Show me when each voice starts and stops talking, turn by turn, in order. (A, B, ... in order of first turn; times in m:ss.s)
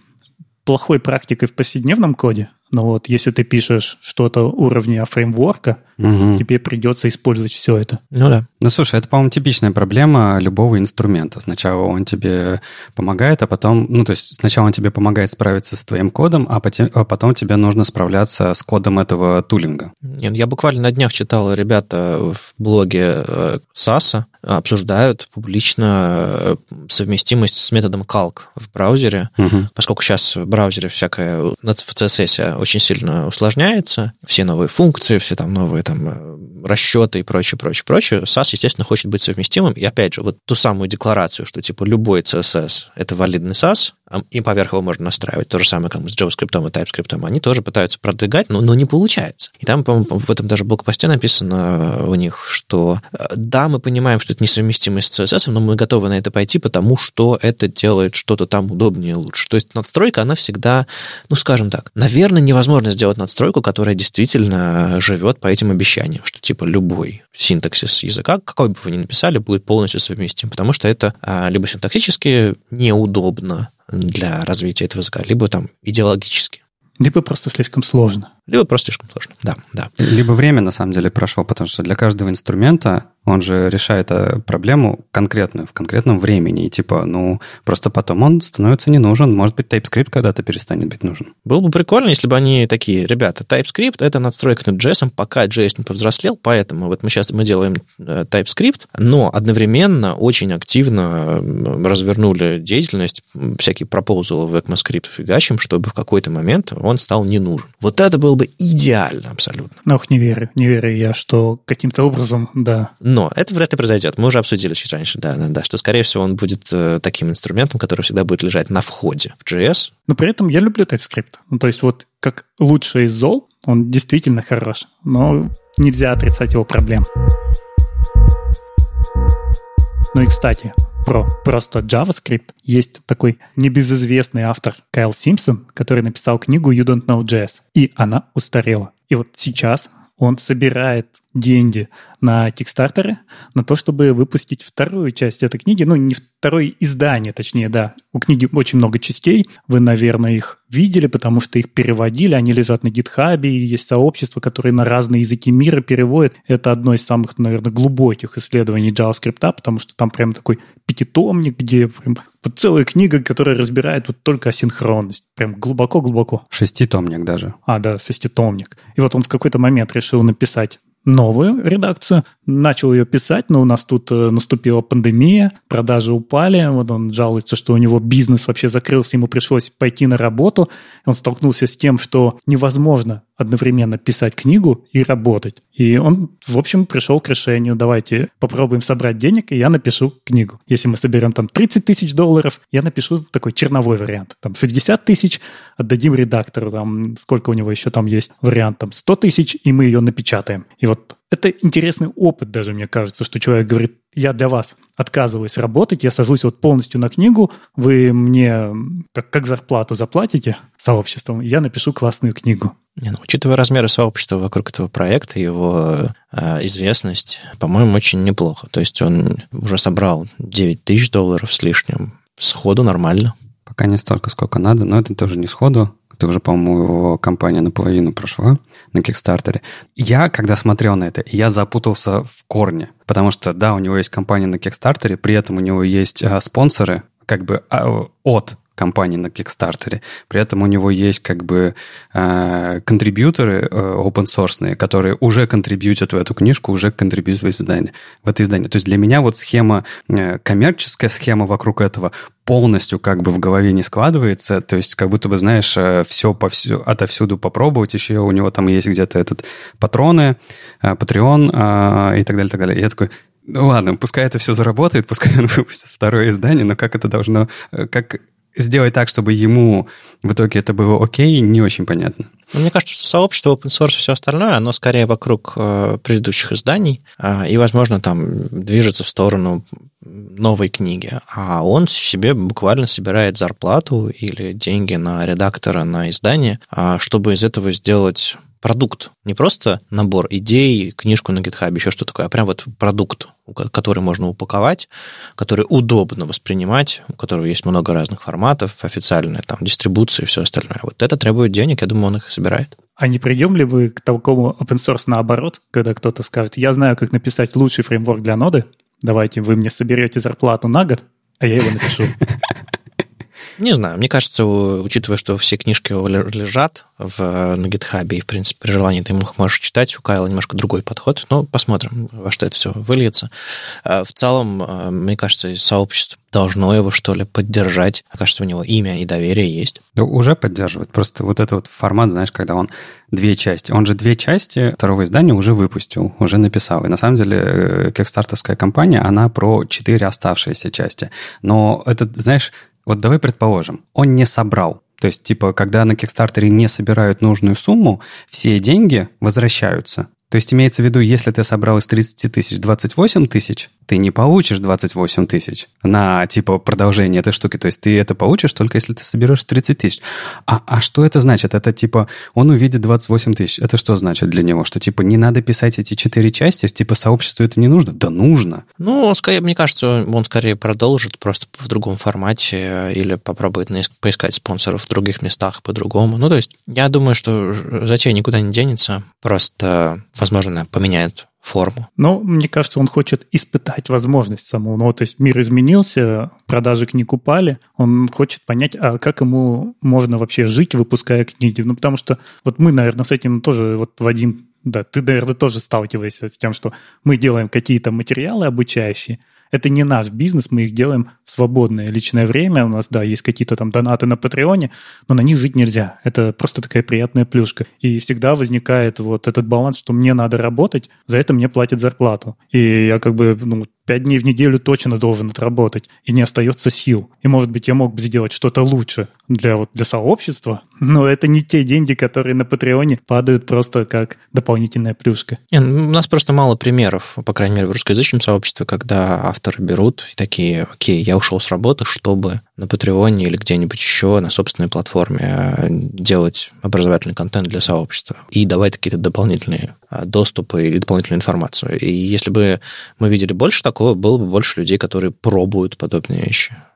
0:00.7-0:05.8 A
0:06.0-0:06.4 B
0:06.4-0:08.0 A
0:08.1-0:08.5 C
0:08.6-0:19.9 B
0:20.0-1:16.6 C
0:29.4-0:29.7 B
1:17.0-1:18.3 A
1:18.5-1:19.9 C
1:20.0-1:31.3 B
1:31.5-1:49.7 C
1:49.8-1:52.9 A
1:53.0-1:59.9 C
2:00.1-2:07.1 A
2:10.1-2:46.4 A
2:46.5-2:47.6 B
2:47.7-3:32.7 A
3:33.0-3:43.3 C
3:43.7-4:32.3 B
4:32.5-5:02.7 C
5:03.0-5:12.2 A
5:13.6-5:23.3 C
5:23.8-5:29.8 C
5:30.0-6:08.6 B
6:08.8-6:21.9 C
6:22.0-7:05.4 A
7:05.5-7:26.6 C